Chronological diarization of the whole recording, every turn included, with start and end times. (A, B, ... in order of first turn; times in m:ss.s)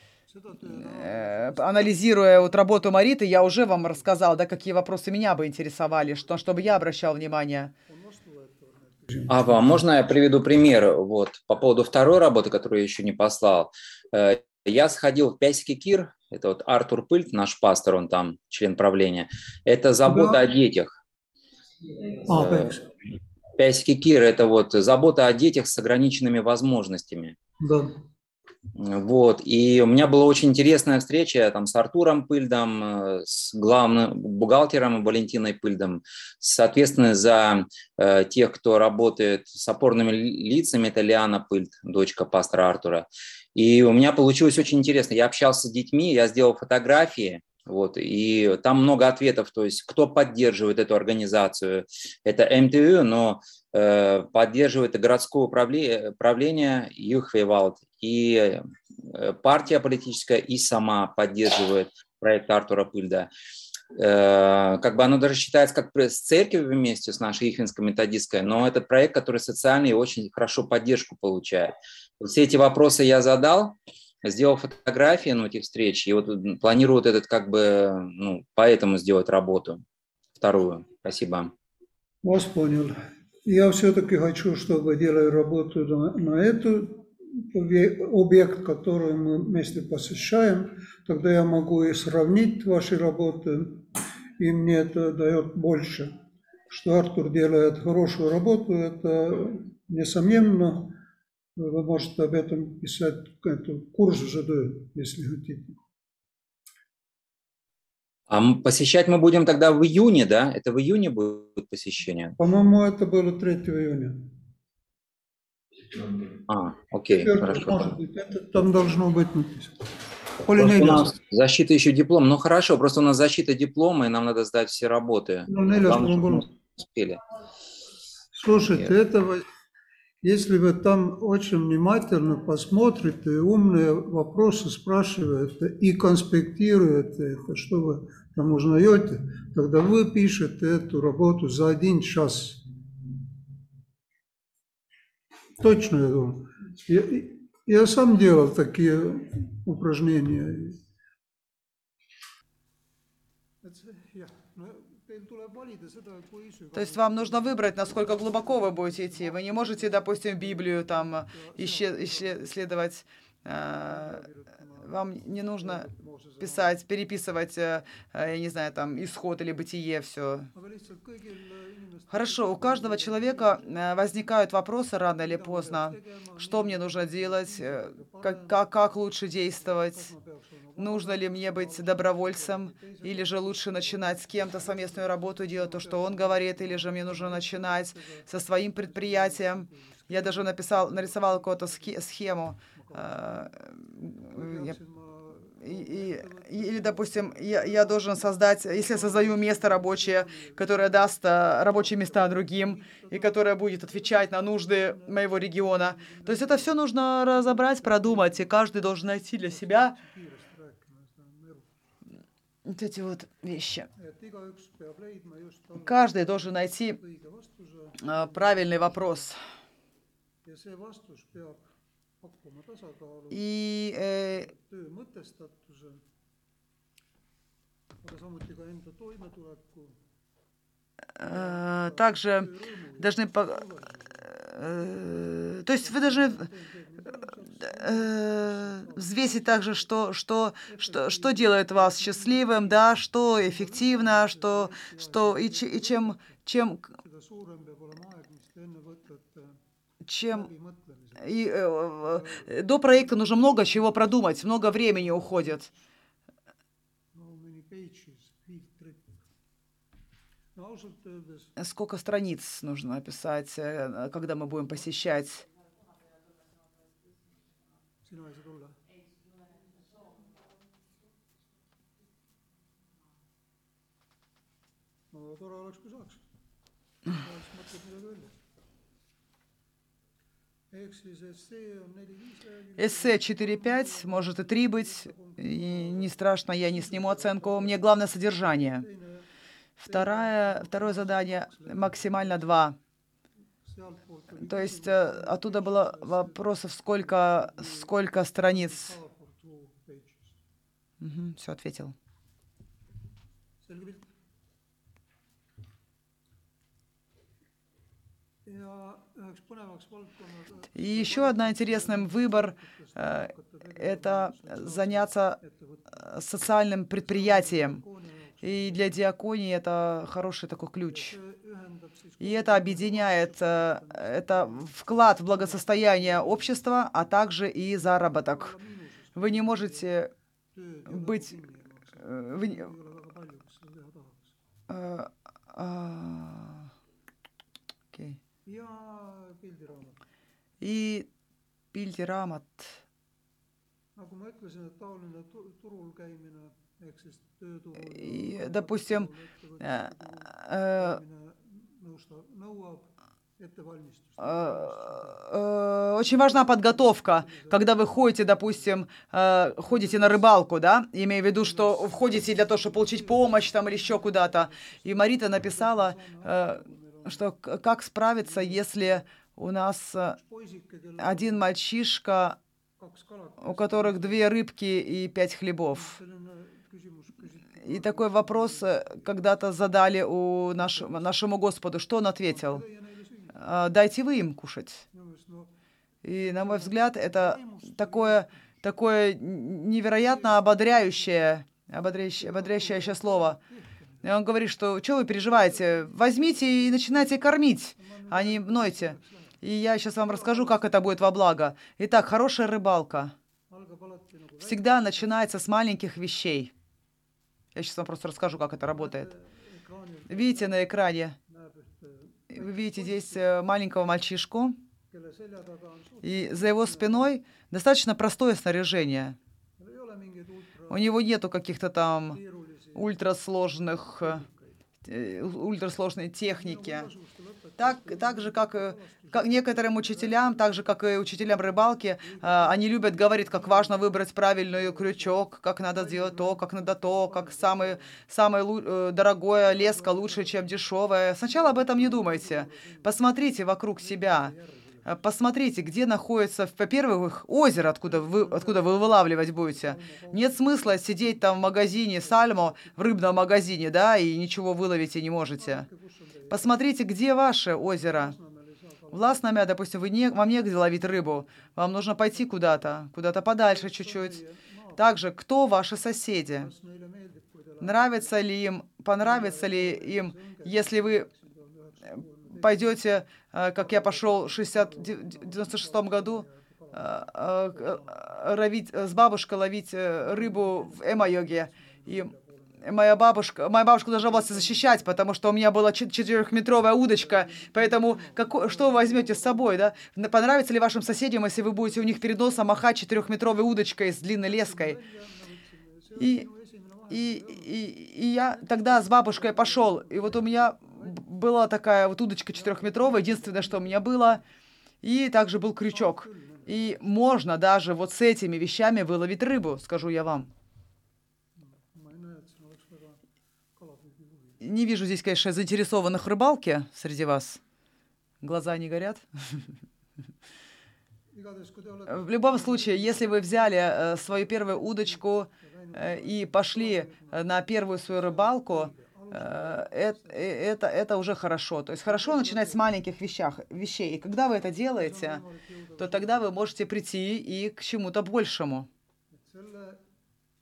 0:00.3-0:03.0 A
0:00.6-0:07.7 B
0:03.8-0:04.1 A
0:07.9-0:09.5 A
0:09.3-0:20.9 C
0:20.0-0:20.4 A
0:22.3-0:22.7 C
0:22.3-0:22.8 A
0:23.6-0:27.4 C
0:27.6-0:28.0 A
0:28.8-1:03.3 C
1:04.0-1:19.8 C
1:20.4-1:21.5 C
1:22.2-1:36.1 A
1:36.7-1:41.0 A
1:41.6-1:45.8 A
1:48.3-1:52.4 C
1:52.4-1:54.3 A
1:56.5-1:57.9 C
1:57.1-1:59.8 A
2:00.4-2:01.2 A
2:00.6-2:07.2 C
2:05.5-2:06.5 A
2:08.3-2:09.4 A
2:10.2-2:22.6 A
2:25.6-2:30.8 A
2:33.6-2:42.6 A
2:36.7-2:44.2 B
2:43.8-2:46.8 A
2:44.8-2:45.9 B
2:46.4-2:50.5 B
2:50.5-2:53.7 A
2:52.1-3:00.1 B
2:55.2-2:58.8 A
2:59.5-3:12.1 A
3:00.8-3:14.8 B
3:12.7-3:13.5 A
3:14.2-3:28.6 A
3:15.6-3:30.0 B
3:29.4-3:31.8 A
3:32.7-3:33.9 B
3:34.0-3:39.2 A
3:35.7-3:37.0 B
3:38.0-3:39.4 B
3:40.4-3:43.5 A
3:43.3-3:44.5 B
3:44.3-3:46.0 A
3:48.0-3:50.0 A
3:51.2-3:53.6 B
3:51.2-3:54.3 A
3:54.2-3:56.5 B
3:55.8-3:59.9 A
3:57.6-4:06.9 B
4:00.7-4:06.4 A
4:06.9-4:09.6 A
4:10.0-4:10.5 B
4:10.3-4:11.5 A
4:11.2-4:15.7 B
4:12.0-4:15.8 A
4:17.1-4:19.2 A
4:20.6-4:21.6 A
4:21.6-4:25.4 B
4:28.0-4:28.8 A
4:35.1-4:36.2 A
4:37.0-4:38.4 A
4:40.7-4:48.0 A
4:42.8-4:48.9 B
4:48.5-4:49.3 A
4:49.8-4:52.8 B
4:49.8-4:52.6 A
4:53.6-5:00.4 A
4:54.4-4:58.9 B
5:01.0-5:02.0 B
5:03.6-5:04.1 A
5:08.5-5:16.1 A
5:10.8-5:15.4 B
5:15.9-5:17.8 B
5:16.9-5:19.0 A
5:18.4-5:21.2 B
5:20.8-5:24.8 A
5:22.2-5:28.6 B
5:25.3-5:26.6 A
5:28.1-5:30.0 A
5:29.2-5:30.1 B
5:30.5-5:34.4 A
5:30.9-5:31.3 B
5:32.0-5:32.7 B
5:34.7-5:36.7 B
5:37.9-5:38.2 B
5:38.4-5:40.0 A
5:40.6-5:41.1 B
5:41.7-5:42.8 B
5:44.0-5:55.2 A
5:47.8-5:49.1 B
5:49.6-5:51.0 B
5:54.2-6:10.2 B
5:56.2-5:58.9 A
5:59.6-6:00.3 A
6:01.4-6:07.4 A
6:08.2-6:09.0 A
6:10.1-6:11.5 A
6:11.0-6:12.4 B
6:12.8-6:14.3 A
6:13.4-6:16.0 B
6:15.7-6:19.3 A
6:17.6-6:22.6 B
6:20.6-6:21.1 A
6:22.2-6:23.4 A
6:23.4-6:24.8 B
6:24.9-6:25.6 A
6:26.0-6:33.4 B
6:26.2-6:28.5 A
6:30.0-6:34.1 A
6:34.0-6:43.2 B
6:35.1-6:41.0 A
6:43.5-6:45.2 A
6:44.4-6:46.5 B
6:47.5-6:49.1 B
6:48.7-6:50.7 A
6:50.1-6:51.2 B
6:51.2-6:53.4 A
6:52.3-6:54.6 B
6:54.9-6:57.2 A
6:56.0-6:59.2 B
6:59.6-7:01.0 A
7:00.7-7:02.2 B
7:02.1-7:03.1 A
7:02.8-7:04.2 B
7:03.9-7:04.6 A
7:04.8-7:06.9 B
7:06.3-7:18.0 A
7:07.6-7:24.3 B
7:19.4-7:20.5 A
7:21.3-7:23.0 A
7:23.8-7:25.0 A
7:24.8-7:35.7 B
7:27.8-7:33.3 A
7:35.4-7:36.6 A
7:36.3-7:38.2 B
7:37.6-7:39.3 A
7:38.9-7:44.2 B
7:41.0-7:41.5 A
7:43.4-7:45.0 A
7:44.8-7:46.5 B
7:46.3-7:48.2 A
7:47.6-7:51.1 B
7:49.0-7:52.9 A
7:52.3-8:02.1 B
7:53.6-7:58.2 A
8:00.0-8:04.9 A
8:02.6-8:14.8 B
8:06.8-8:09.9 A
8:11.4-8:12.6 A
8:14.2-8:17.7 A
8:16.0-8:16.3 B
8:16.9-8:24.2 B
8:18.3-8:21.0 A
8:22.3-8:24.2 A
8:24.8-8:30.3 B
8:25.7-8:26.8 A
8:31.4-8:33.0 A
8:33.6-8:34.5 A
8:34.4-8:37.4 B
8:38.2-8:39.5 B
8:41.1-8:50.4 A
8:41.9-8:55.2 B
8:51.8-8:52.6 A
8:54.8-8:56.3 A
8:55.8-8:58.7 B
8:59.1-8:59.8 A